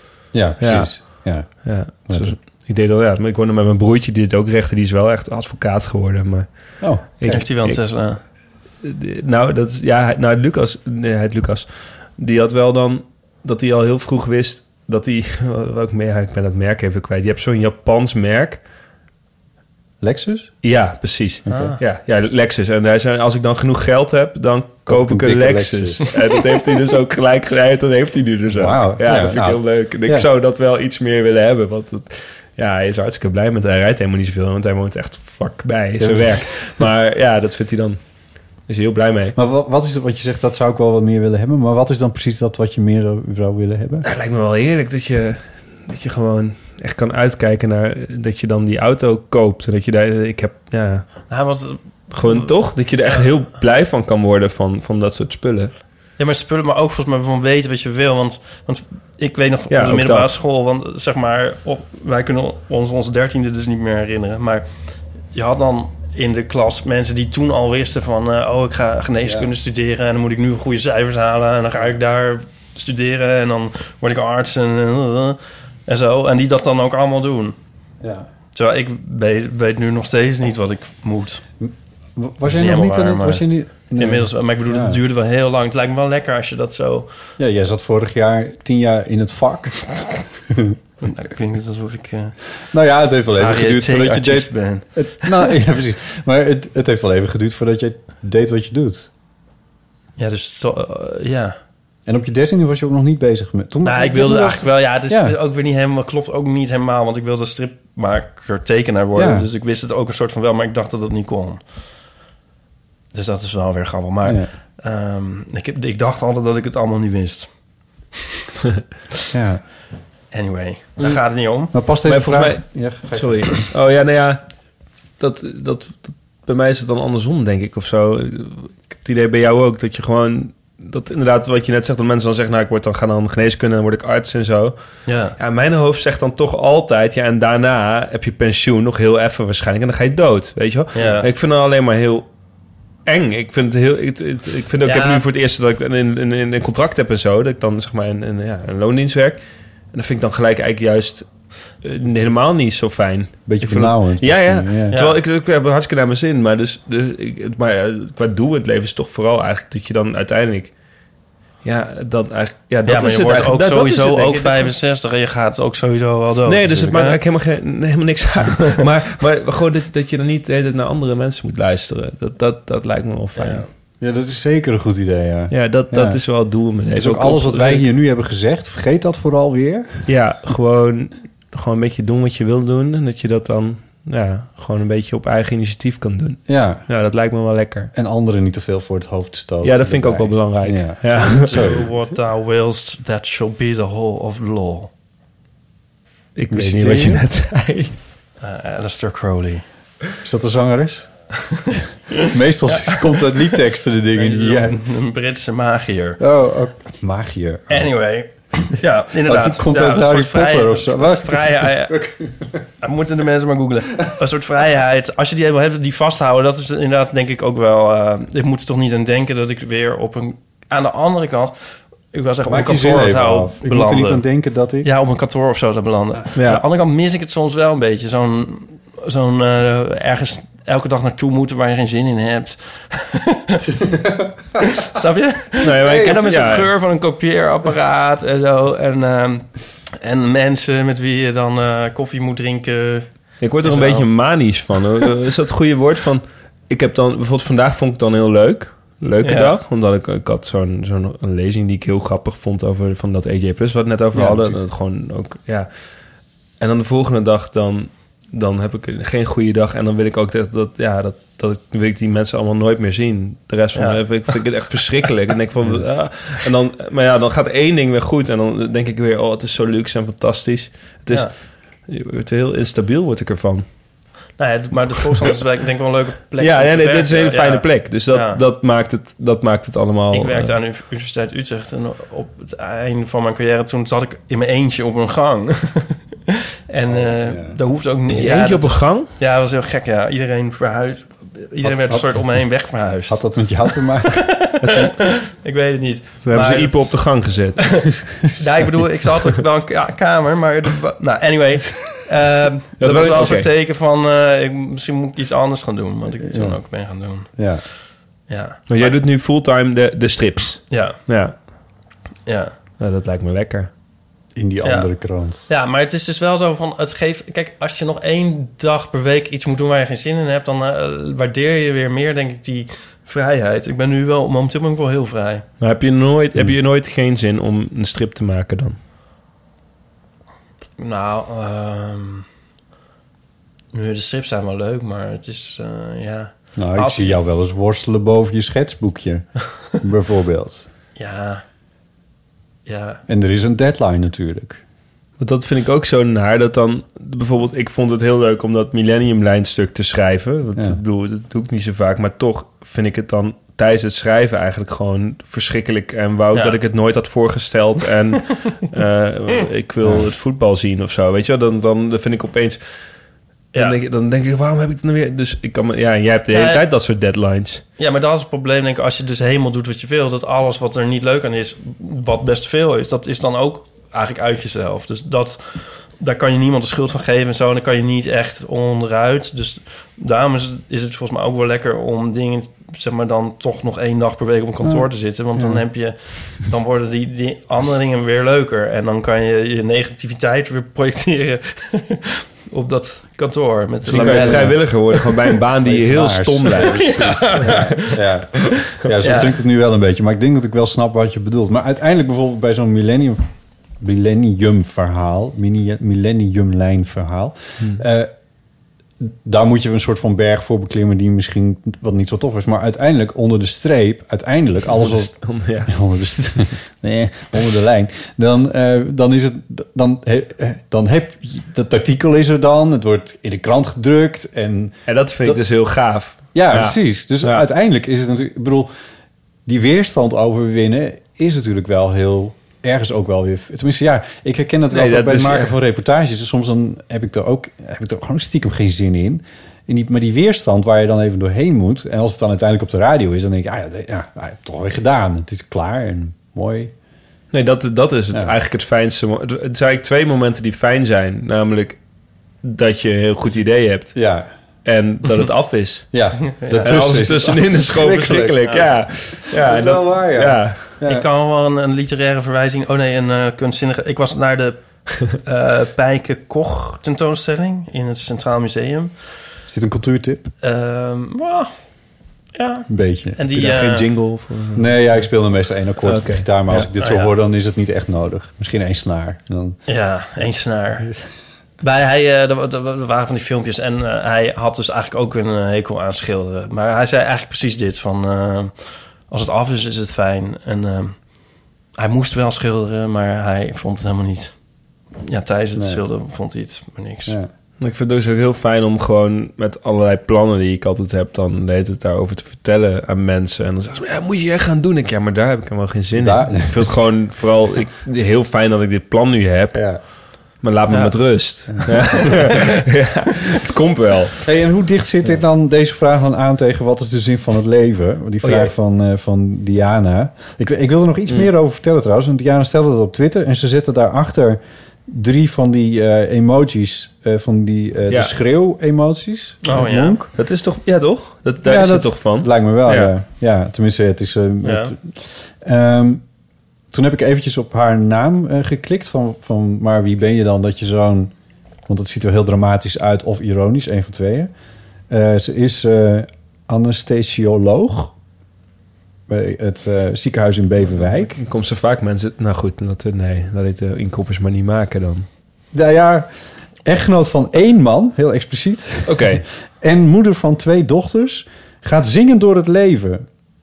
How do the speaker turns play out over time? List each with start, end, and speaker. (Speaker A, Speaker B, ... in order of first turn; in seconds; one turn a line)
Speaker A: 0.3-2.4
Speaker B: 0.6-7.8
Speaker A: 6.8-7.4
Speaker C: 7.2-8.2
Speaker B: 8.8-18.6
Speaker A: 20.0-20.5
Speaker B: 20.6-38.0
Speaker A: 21.5-21.7
Speaker C: 21.5-21.8
Speaker A: 24.9-26.1
Speaker A: 28.5-30.3
Speaker A: 36.0-36.8
Speaker B: 38.7-39.4
Speaker A: 39.4-44.1
Speaker B: 44.0-51.2
Speaker C: 51.3-52.5
Speaker B: 52.1-55.7
Speaker C: 56.2-64.7
Speaker B: 59.7-60.4
Speaker C: 65.3-77.6
Speaker A: 69.2-69.5
Speaker A: 78.0-78.3
Speaker C: 78.5-81.4
Speaker A: 81.6-85.0
Speaker C: 82.5-87.1
Speaker A: 87.4-90.8
Speaker C: 91.0-92.3
Speaker A: 92.7-99.1
Speaker C: 93.4-95.5
Speaker C: 100.2-101.6
Speaker A: 102.1-105.4
Speaker C: 103.8-111.6
Speaker A: 109.1-109.5
Speaker C: 113.1-117.5
Speaker A: 114.2-114.5
Speaker A: 119.3-119.6
Speaker C: 120.3-121.7
Speaker A: 121.7-123.6
Speaker B: 122.0-124.4
Speaker B: 125.2-134.8
Speaker C: 135.1-135.4
Speaker B: 135.4-142.3
Speaker C: 140.9-141.3
Speaker B: 143.1-149.4
Speaker C: 144.8-145.2
Speaker B: 149.9-151.3
Speaker B: 151.8-160.7
Speaker A: 153.5-154.9
Speaker C: 154.9-155.2
Speaker B: 161.6-164.7
Speaker C: 162.9-167.2
Speaker B: 166.5-173.7
Speaker C: 173.4-173.7
Speaker A: 174.0-176.2
Speaker B: 175.5-177.9
Speaker A: 176.9-180.1
Speaker B: 180.1-187.9
Speaker A: 186.5-186.8
Speaker A: 187.9-191.8
Speaker B: 189.6-191.5
Speaker C: 191.2-194.9
Speaker B: 196.4-197.9
Speaker A: 196.5-197.2
Speaker C: 198.4-199.6
Speaker A: 200.2-201.1
Speaker C: 202.2-203.5
Speaker A: 202.3-204.8
Speaker C: 204.2-206.2
Speaker A: 206.2-207.9
Speaker C: 207.7-212.0
Speaker A: 209.1-212.6
Speaker C: 212.8-221.6
Speaker C: 222.1-224.2
Speaker A: 222.5-224.9
Speaker C: 224.8-233.7
Speaker B: 226.4-226.6
Speaker A: 233.7-234.4
Speaker C: 234.6-243.1
Speaker B: 235.6-236.7
Speaker A: 235.8-236.1
Speaker B: 243.4-255.7
Speaker C: 243.6-244.1
Speaker C: 249.2-249.5
Speaker A: 254.1-254.6
Speaker B: 256.6-271.3
Speaker C: 263.8-264.4
Speaker B: 271.8-273.6
Speaker C: 274.4-278.4
Speaker B: 276.4-280.5
Speaker C: 280.1-297.0
Speaker A: 286.9-287.6
Speaker B: 288.1-289.1
Speaker A: 291.6-292.3
Speaker A: 293.1-294.3
Speaker B: 294.6-294.9
Speaker B: 296.2-297.9
Speaker C: 298.4-307.3
Speaker B: 302.8-303.5
Speaker A: 306.2-306.6
Speaker A: 307.4-307.6
Speaker C: 308.3-309.0
Speaker B: 308.7-311.4
Speaker C: 310.7-311.0
Speaker C: 312.3-312.5
Speaker B: 312.8-313.7
Speaker A: 314.4-315.4
Speaker C: 314.6-314.9
Speaker C: 315.5-325.4
Speaker B: 325.6-328.8
Speaker C: 330.8-332.3
Speaker C: 333.7-337.2
Speaker A: 336.6-340.7
Speaker C: 341.0-341.4
Speaker C: 342.7-343.0
Speaker A: 343.1-344.6
Speaker B: 345.2-362.6
Speaker C: 356.3-356.6
Speaker A: 359.8-360.1
Speaker B: 363.6-367.6
Speaker C: 366.3-366.6
Speaker C: 367.8-395.1
Speaker A: 385.4-385.6
Speaker A: 393.9-394.8
Speaker B: 393.9-397.6
Speaker A: 395.6-403.3
Speaker C: 396.7-398.0
Speaker C: 399.0-399.3
Speaker A: 403.8-408.1
Speaker A: 409.0-415.1
Speaker B: 414.7-415.7
Speaker A: 415.7-425.4
Speaker B: 424.9-427.4
Speaker A: 426.3-428.7
Speaker A: 429.5-446.7
Speaker B: 434.7-435.6
Speaker B: 447.3-451.8
Speaker B: 452.4-454.0
Speaker A: 453.9-454.3
Speaker B: 454.6-455.9
Speaker A: 455.9-458.4
Speaker C: 456.3-456.8
Speaker B: 456.6-460.6
Speaker A: 459.3-461.1
Speaker C: 460.9-468.9
Speaker A: 469.5-470.3
Speaker C: 470.4-471.5
Speaker C: 472.4-473.9
Speaker A: 472.7-473.2
Speaker B: 473.3-475.1
Speaker A: 474.6-479.6
Speaker B: 475.8-476.7
Speaker C: 476.6-477.1
Speaker C: 479.7-480.9
Speaker C: 481.6-491.0
Speaker C: 491.8-494.3
Speaker C: 495.0-497.2
Speaker A: 495.6-495.8
Speaker B: 497.6-509.8
Speaker A: 505.9-507.1
Speaker A: 509.5-509.8
Speaker B: 510.4-514.2
Speaker C: 510.7-511.0
Speaker A: 511.5-512.0
Speaker A: 514.2-530.1
Speaker B: 518.2-518.5
Speaker C: 529.4-530.0
Speaker B: 530.1-532.9
Speaker A: 531.4-536.0
Speaker C: 534.4-534.7
Speaker A: 536.7-541.1
Speaker A: 541.7-544.3
Speaker A: 544.9-547.9
Speaker A: 549.1-551.1
Speaker B: 550.6-555.1
Speaker A: 555.5-556.1
Speaker A: 556.6-563.0
Speaker B: 558.9-559.2